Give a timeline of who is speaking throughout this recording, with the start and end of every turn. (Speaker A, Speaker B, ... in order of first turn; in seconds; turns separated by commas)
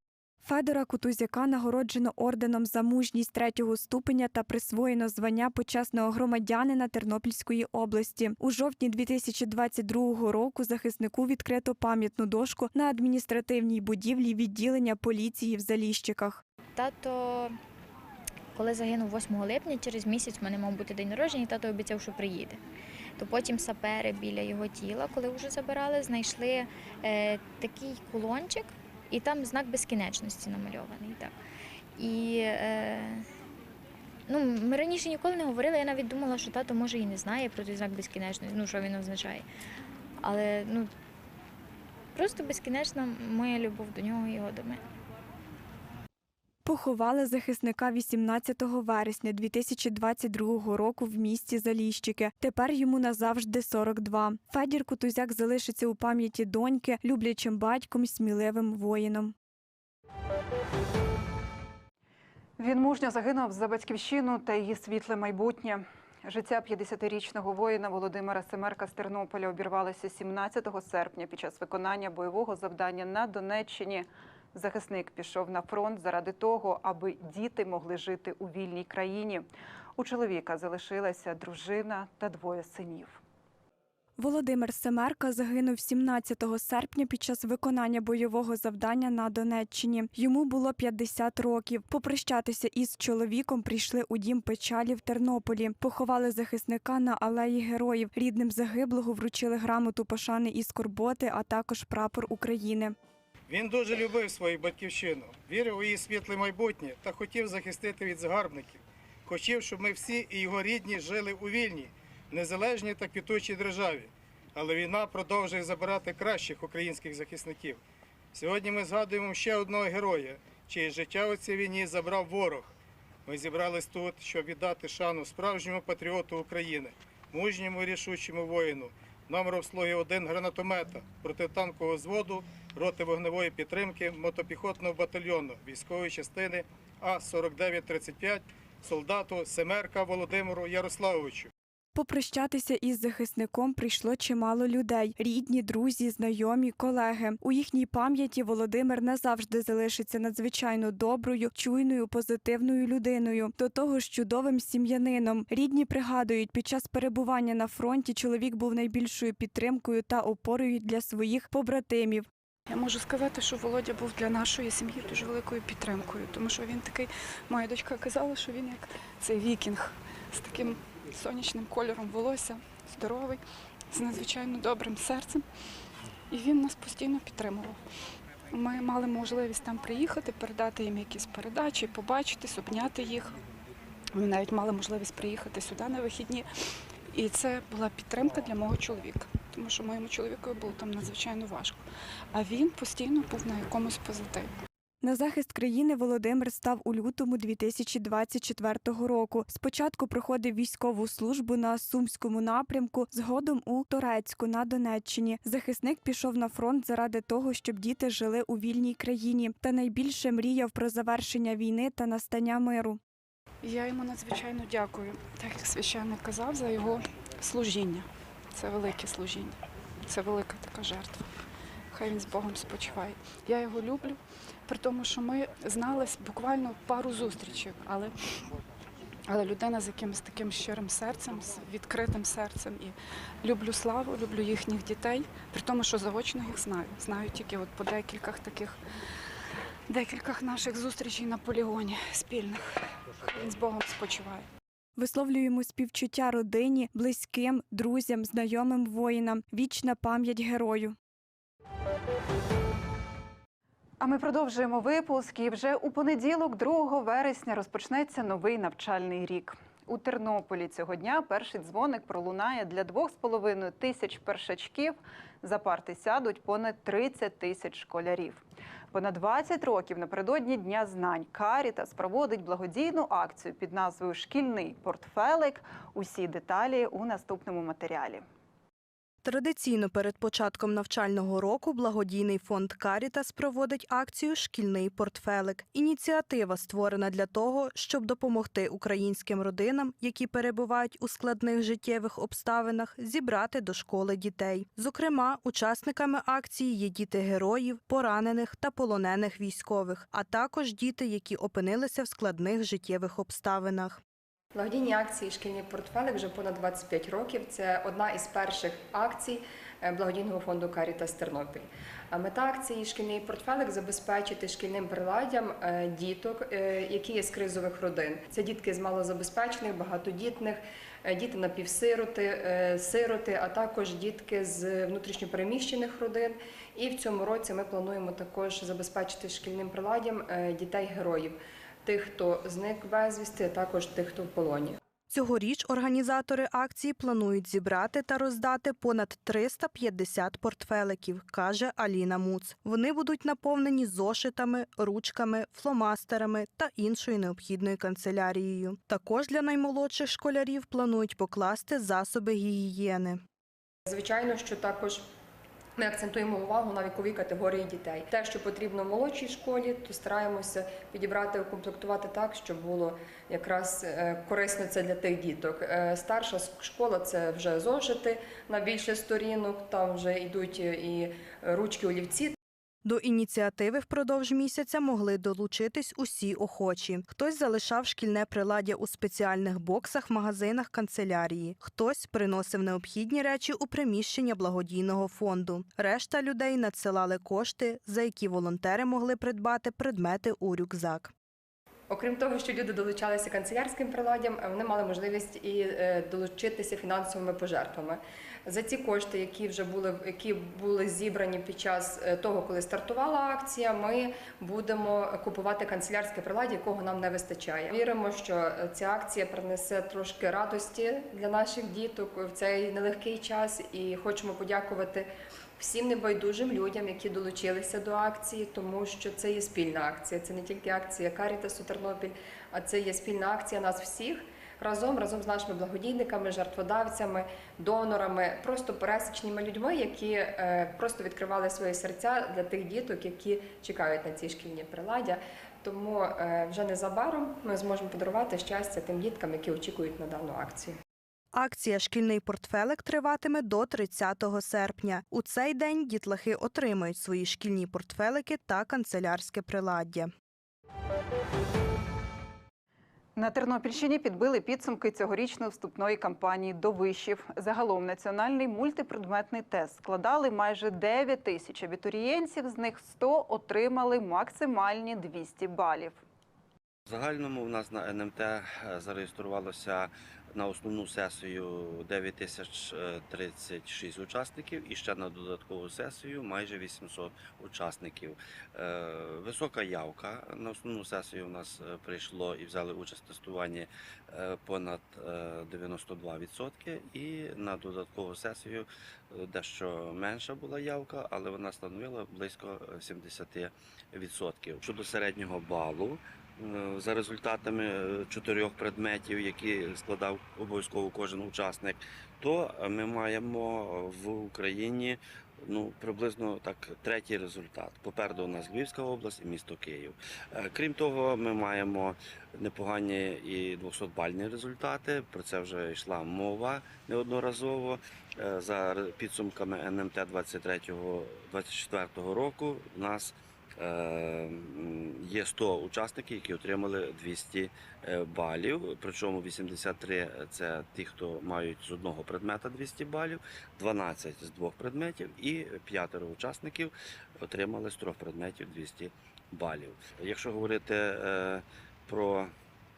Speaker A: 0.4-16.4, Speaker B: 16.8-17.6, Speaker B: 18.5-22.6, Speaker B: 23.2-31.4, Speaker B: 31.9-33.3, Speaker B: 34.3-39.4, Speaker B: 40.2-40.9, Speaker B: 42.1-44.8, Speaker A: 46.6-59.3, Speaker C: 62.6-83.2, Speaker A: 84.2-102.9, Speaker D: 103.5-117.8, Speaker D: 118.3-122.7, Speaker D: 123.2-141.5, Speaker A: 141.9-162.3, Speaker E: 162.7-175.4, Speaker E: 176.3-177.8, Speaker E: 178.5-183.4, Speaker E: 184.1-186.5, Speaker E: 187.1-194.5, Speaker A: 195.0-213.0, Speaker E: 213.6-221.3, Speaker E: 221.9-228.2, Speaker E: 229.3-238.8, Speaker E: 239.9-244.5, Speaker A: 245.0-250.9, Speaker C: 254.0-278.2, Speaker F: 279.2-304.0, Speaker G: 304.5-334.8, Speaker F: 335.1-353.2, Speaker G: 353.9-355.1, Speaker G: 355.8-372.3, Speaker F: 372.8-391.1, Speaker G: 391.9-440.8, Speaker F: 441.3-450.1, Speaker C: 453.1-466.0, Speaker H: 466.9-542.3